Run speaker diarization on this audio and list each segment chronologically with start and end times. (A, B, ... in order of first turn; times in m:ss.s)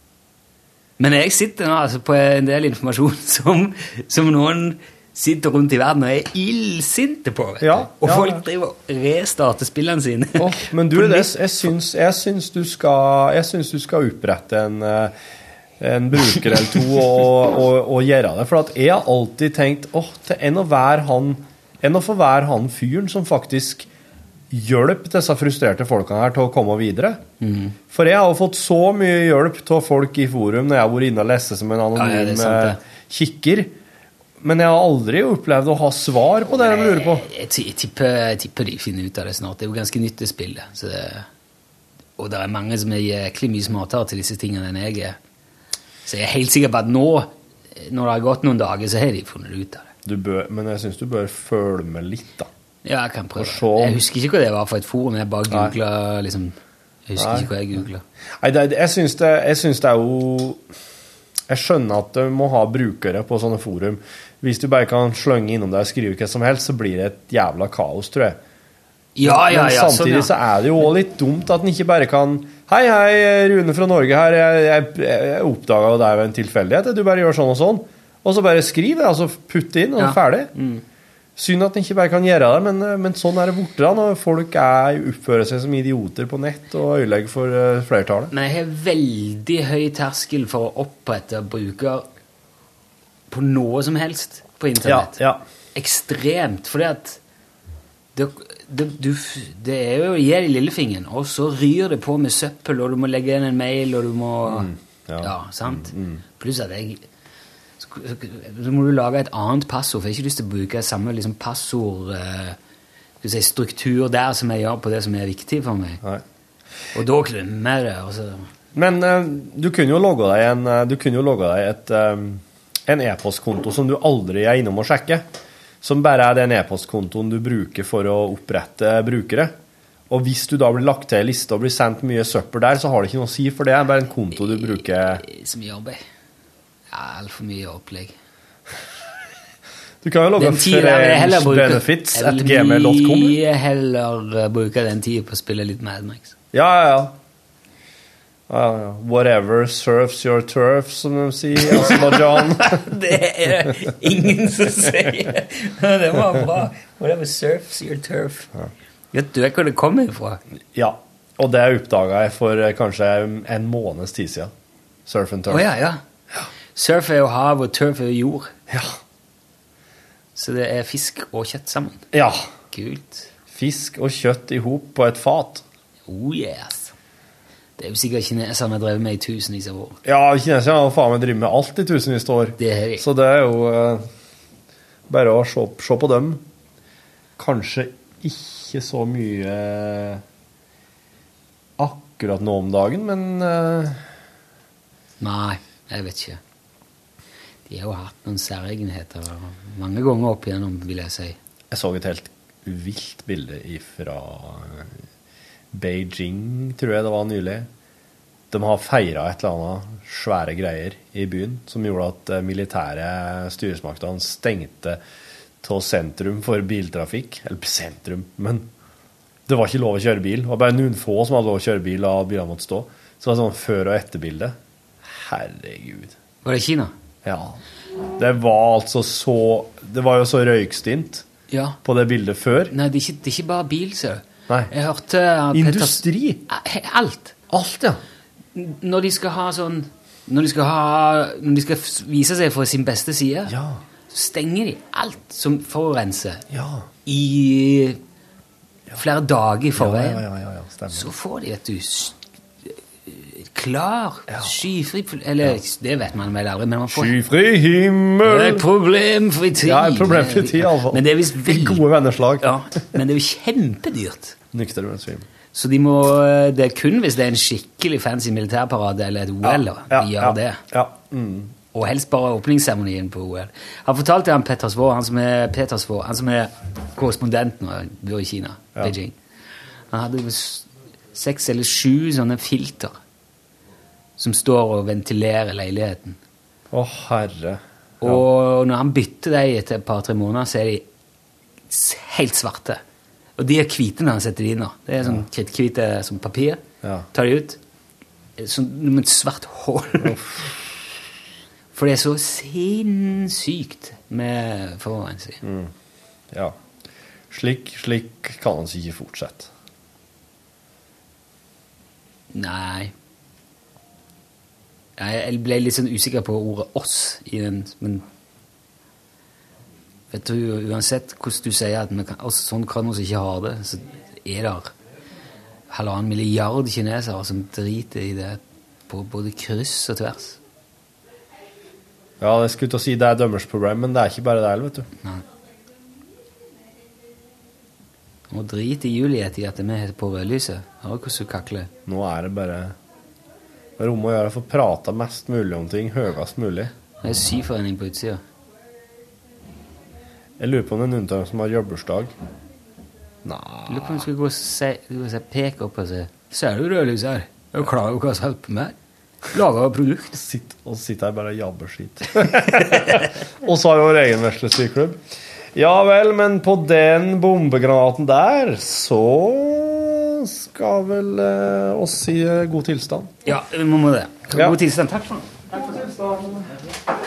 0:01.0-0:11.3 A
0:07.6-0:08.4 B
0:10.4-0:15.1 B
0:15.8-0:23.9 B
0:24.5-0:27.2 B
0:27.4-0:27.8 A
0:27.9-0:33.7 B
0:31.9-0:32.8 A
0:34.4-0:37.2 B
0:36.5-0:41.3 A
0:42.2-0:45.2 A
0:46.0-0:49.9 A
0:50.0-0:52.5 B
0:52.8-0:56.6 A
0:53.4-0:54.0 B
0:57.1-0:58.0 A
0:57.2-0:57.5 B
0:58.4-1:00.6 B
1:01.5-1:08.4 B
1:09.1-1:10.3 A
1:09.2-1:20.5 B
1:20.0-1:20.8 A
1:21.4-1:28.3 B
1:28.3-1:32.0 A
1:33.3-1:35.2 A
1:34.8-1:35.4 B
1:35.7-1:37.2 A
1:38.1-1:44.7 A
1:44.4-1:46.2 B
1:45.2-1:47.0 A
1:47.8-1:52.6 A
1:53.2-1:56.0 A
1:56.9-1:58.5 A
1:58.7-2:05.2 B
2:05.8-2:09.5 B
2:10.1-2:15.2 B
2:14.6-2:16.0 A
2:16.9-2:18.1 A
2:20.0-2:23.4 B
2:20.4-2:26.3 A
2:26.5-2:27.2 B
2:28.5-2:32.8 B
2:31.7-2:38.5 A
2:39.1-2:40.4 A
2:40.7-2:44.5 B
2:45.0-2:45.7 B
2:45.5-2:46.0 A
2:46.7-2:48.5 A
2:48.7-2:49.0 B
2:50.4-2:52.0 A
2:52.1-2:52.5 B
2:52.7-2:53.3 A
2:53.5-2:55.6 B
2:56.1-2:56.9 A
2:57.8-3:00.0 A
3:00.0-3:04.0 B
3:02.6-3:03.0 A
3:05.1-3:06.4 B
3:07.4-3:10.2 B
3:11.8-3:14.0 B
3:15.2-3:16.4 A
3:17.7-3:21.4 A
3:21.7-3:24.9 B
3:25.7-3:27.7 B
3:28.5-3:35.0 B
3:35.6-3:38.7 B
3:39.5-3:46.1 B
3:46.4-3:46.9 A
3:47.2-3:47.6 B
3:48.1-3:51.2 B
3:51.5-3:51.8 A
3:51.8-3:52.7 B
3:52.7-3:57.3 A
3:55.5-3:56.4 B
3:57.5-3:58.0 B
3:58.5-4:03.6 A
4:03.5-4:03.8 B
4:04.1-4:06.4 A
4:06.5-4:06.9 B
4:07.0-4:08.0 A
4:08.9-4:10.2 A
4:09.8-4:11.1 B
4:10.9-4:17.1 A
4:16.9-4:18.6 B
4:18.2-4:21.8 A
4:19.6-4:22.4 B
4:22.4-4:24.4 A
4:24.5-4:25.2 B
4:25.5-4:30.6 A
4:29.4-4:31.5 B
4:31.7-4:39.1 A
4:39.9-4:43.0 A
4:44.2-4:46.2 A
4:46.7-4:48.2 B
4:48.0-4:50.8 A
4:51.7-4:52.8 A
4:53.4-4:56.6 A
4:57.1-4:57.6 A
4:58.4-5:00.2 A
5:00.0-5:00.5 B
5:01.7-5:05.4 A
5:05.4-5:05.7 B
5:06.3-5:06.6 B
5:07.3-5:09.5 B
5:12.3-5:12.9 A
5:15.0-5:18.0 A
5:20.1-5:24.7 A
5:25.7-5:30.4 A
5:32.2-5:34.9 B
5:38.3-5:41.7 A
5:41.8-5:42.7 B
5:43.8-5:46.7 B
5:47.0-5:48.2 A
5:50.4-5:52.1 B
5:53.2-5:54.0 B
5:53.7-5:58.7 A
5:59.3-6:00.2 A
6:00.2-6:05.0 B
6:05.5-6:13.1 B
6:13.2-6:15.4 A
6:15.5-6:16.5 B